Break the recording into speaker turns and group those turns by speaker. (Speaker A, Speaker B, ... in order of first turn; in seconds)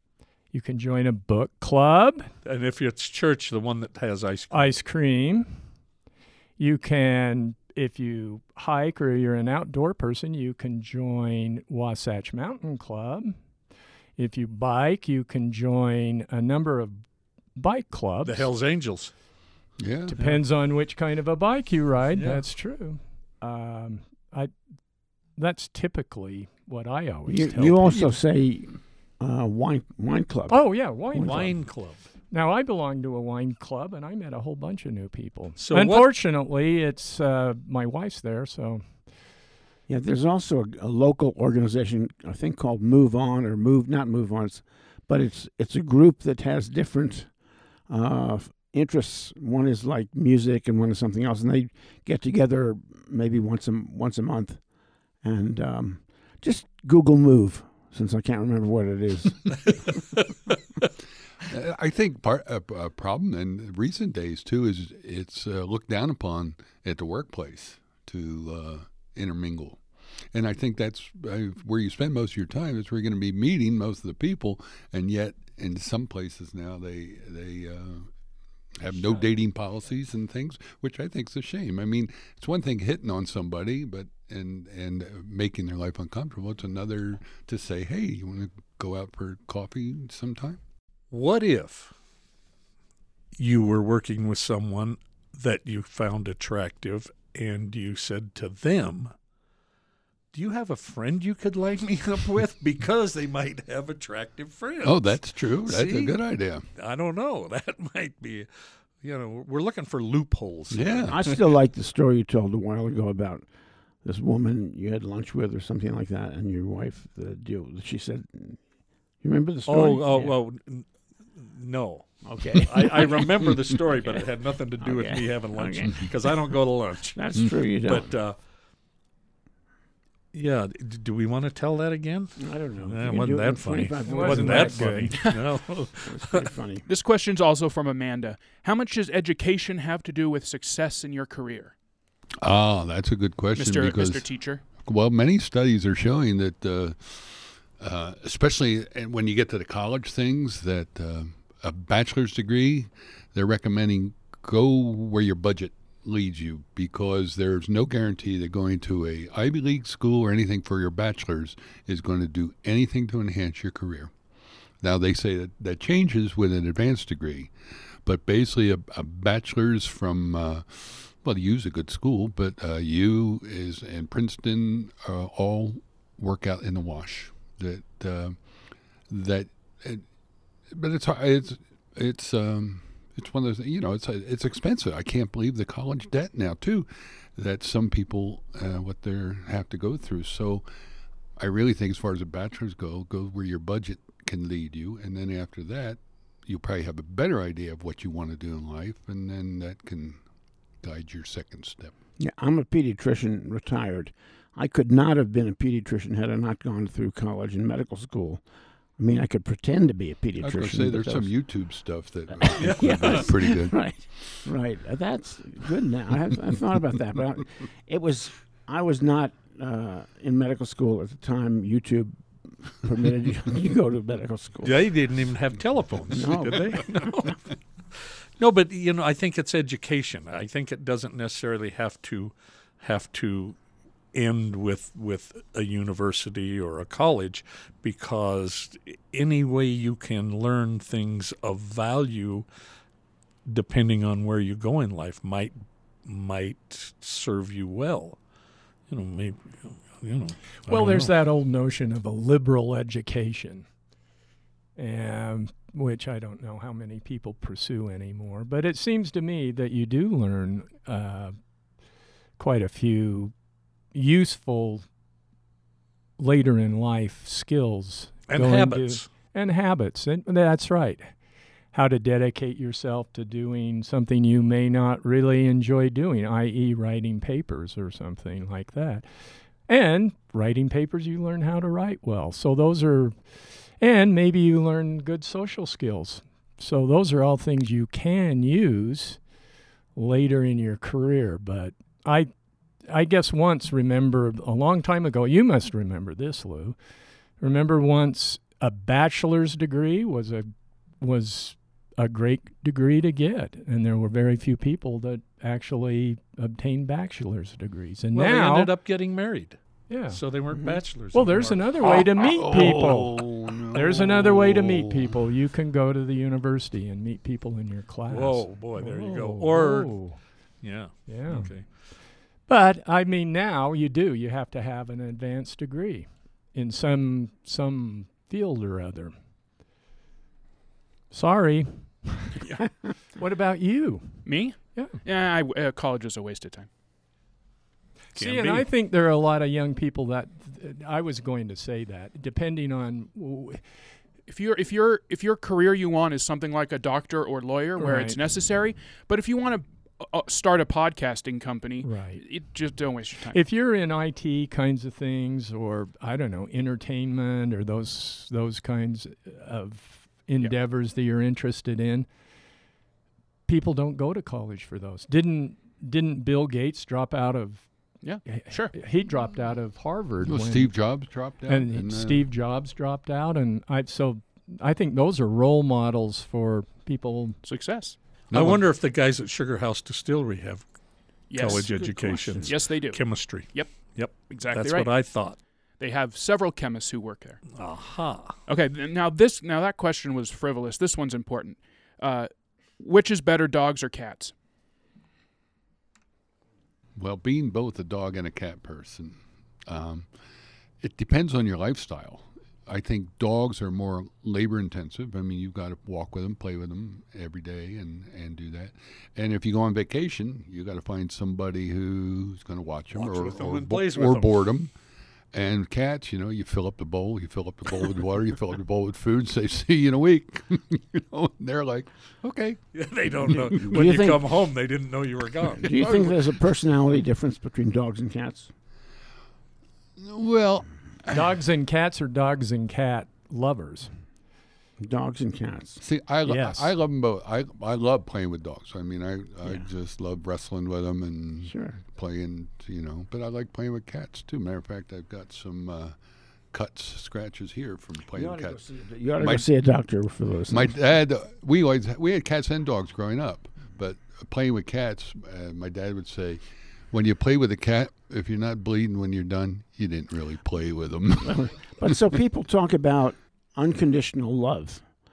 Speaker A: 0.5-2.3, 4.5-5.6, 6.6-13.3, 14.2-17.0, 17.6-18.5, 20.1-24.5, 25.4-28.1, 30.5-31.5, 32.3-38.8, 134.1-135.2, 250.7-253.7, 254.8-261.4, 262.4-263.3, 263.9-264.9, 266.2-271.1, 271.7-279.1, 279.7-283.1, 283.8-289.2, 289.9-292.3, 292.9-296.8, 297.4-300.5, 301.0-308.7, 309.9-310.2, 311.1-320.2, 321.1-321.5, 322.5-329.1, 331.1-332.3, 333.1-335.0, 338.1-343.6, 347.8-348.2, 351.8-352.2, 353.3-362.1, 363.5-367.7, 368.2-370.7, 371.5-377.4, 431.1-433.9, 436.2-436.7
Speaker B: 2.4-4.8, 18.2-19.1, 22.2-22.4, 31.2-32.0, 35.6-36.1, 91.1-91.9, 93.4-99.1, 100.3-106.2, 106.7-108.5, 109.0-111.4, 119.7-128.3, 130.3-136.5, 212.6-213.3, 224.6-227.4, 227.9-233.6, 234.1-242.4, 243.4-248.2, 248.9-251.1, 268.3-269.1, 308.1-309.6, 310.1-311.6, 318.1-320.0, 320.6-321.6, 338.1-338.6, 378.3-380.6, 381.3-385.4, 387.5-388.4, 412.9-414.4, 422.7-426.2
Speaker C: 19.8-20.2, 61.4-69.8, 70.3-78.1, 78.8-90.6, 104.8-106.6, 110.7-111.2, 142.4-164.1, 164.8-167.5, 168.0-178.4, 179.1-180.1, 180.7-190.6, 191.4-200.2, 200.8-201.9, 210.4-213.9, 311.8-315.2, 370.2-372.2, 378.3-378.6, 396.9-400.1, 400.8-414.7, 415.3-422.6, 423.3-423.6, 430.0-431.2, 435.8-445.9, 446.5-448.6, 449.2-449.5, 450.5-461.9
Speaker D: 27.3-30.6, 31.1-31.5, 39.9-47.3, 47.9-54.6, 55.2-60.0, 111.1-113.5, 114.0-118.6, 119.2-120.3, 122.2-124.2, 124.8-126.4, 127.2-128.1, 132.4-135.2, 136.0-136.8, 202.2-208.4, 209.0-211.3, 212.4-224.8, 226.1-227.3, 310.5-310.8, 381.4-382.6, 423.5-424.2, 425.6-428.5, 434.8-435.8, 441.4-441.8, 448.1-450.7, 461.2-464.9
Speaker E: 136.9-141.7, 143.6-144.6, 334.2-336.7, 344.3-353.4, 368.0-368.7, 377.4-378.0, 381.3-381.9, 382.4-384.9, 385.8-387.4, 388.5-394.3